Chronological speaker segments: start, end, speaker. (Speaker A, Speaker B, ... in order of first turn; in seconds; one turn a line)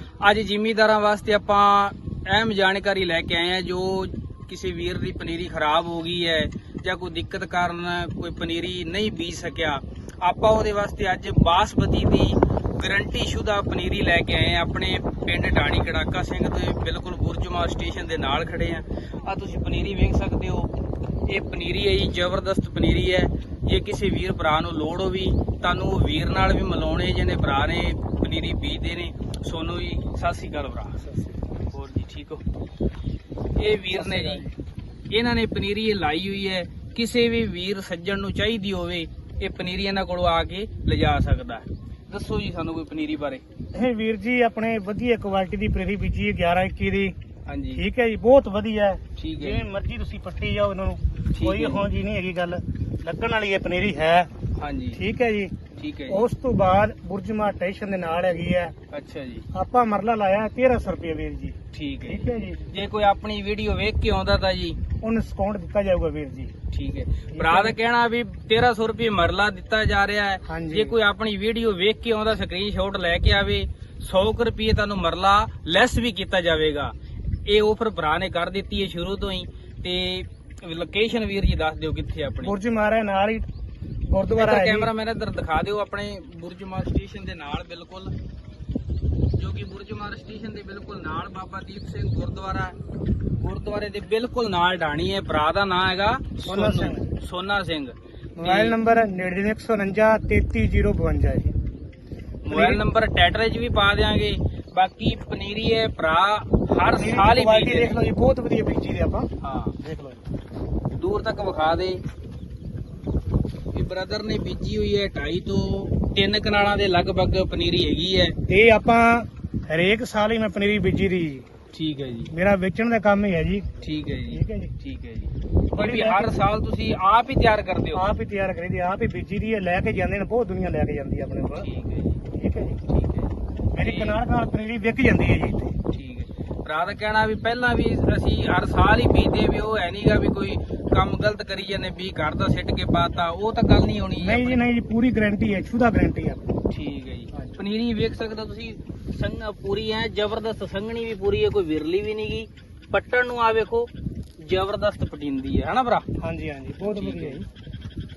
Speaker A: 0.2-20.7
Speaker A: 21.3-31.1
Speaker A: 31.7-32.4
Speaker A: 33.6-34.5
Speaker B: 33.9-34.5
Speaker A: 35.1-43.4
Speaker B: 43.7-47.1
Speaker A: 47.5-47.8
Speaker B: 47.8-54.3
Speaker A: 49.2-49.7
Speaker A: 51.3-51.9
Speaker A: 54.5-55.0
Speaker B: 54.9-55.5
Speaker A: 55.8-56.2
Speaker B: 56.1-58.7
Speaker A: 58.9-59.5
Speaker B: 59.5-62.6
Speaker A: 61.7-64.8
Speaker B: 65.0-66.5
Speaker A: 66.7-76.9
Speaker B: 67.3-67.8
Speaker B: 70.5-71.0
Speaker A: 77.5-82.5
Speaker B: 82.4-83.5
Speaker B: 84.0-84.9
Speaker A: 84.3-88.1
Speaker A: 89.4-92.8
Speaker A: 93.4-98.8
Speaker B: 96.4-97.1
Speaker B: 98.4-101.5
Speaker A: 102.4-108.0
Speaker B: 102.5-102.8
Speaker B: 106.9-110.2
Speaker A: 109.4-109.8
Speaker A: 111.0-112.0
Speaker A: 113.7-118.4
Speaker B: 118.5-121.5
Speaker A: 121.7-122.3
Speaker B: 122.3-123.7
Speaker A: 123.8-128.1
Speaker B: 124.3-124.8
Speaker B: 125.8-126.3
Speaker B: 127.9-131.7
Speaker A: 131.6-132.2
Speaker B: 132.3-132.8
Speaker A: 132.9-134.2
Speaker B: 133.7-135.8
Speaker A: 135.9-144.6
Speaker B: 144.2-146.5
Speaker A: 146.7-156.1
Speaker B: 156.2-157.4
Speaker A: 156.9-157.4